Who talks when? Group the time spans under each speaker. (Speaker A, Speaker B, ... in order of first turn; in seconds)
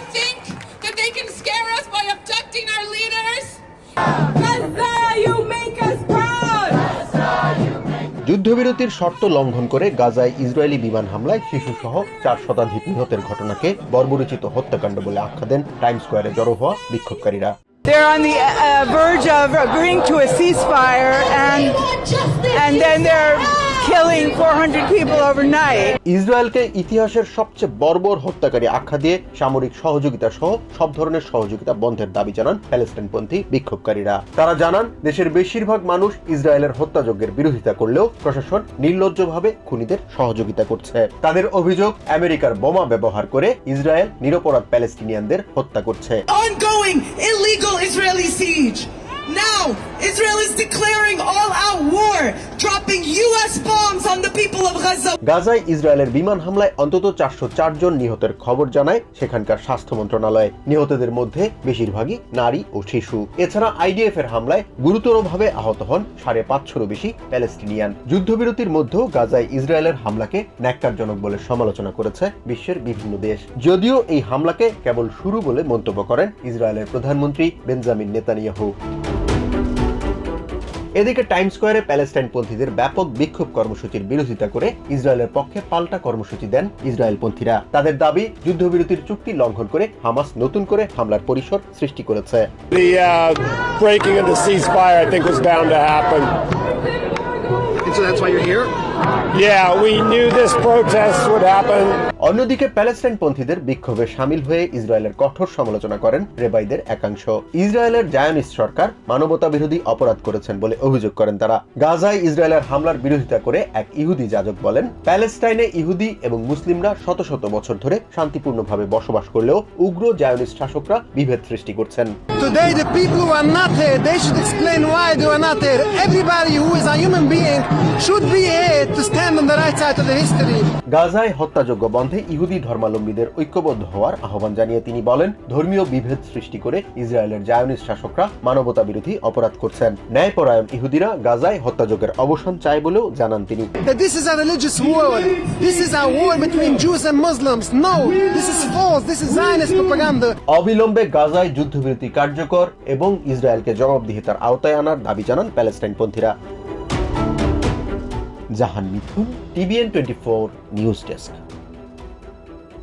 Speaker A: 4.6-6.9, 17.9-26.0
Speaker B: 8.2-17.5, 26.1-46.2, 55.2-78.7, 81.0-92.5, 102.2-122.1, 130.9-143.7, 150.5-156.3, 158.5-161.4
Speaker C: 46.3-55.2
Speaker D: 92.7-96.3, 99.3-102.0
Speaker E: 97.9-98.7, 122.4-130.7, 143.8-150.3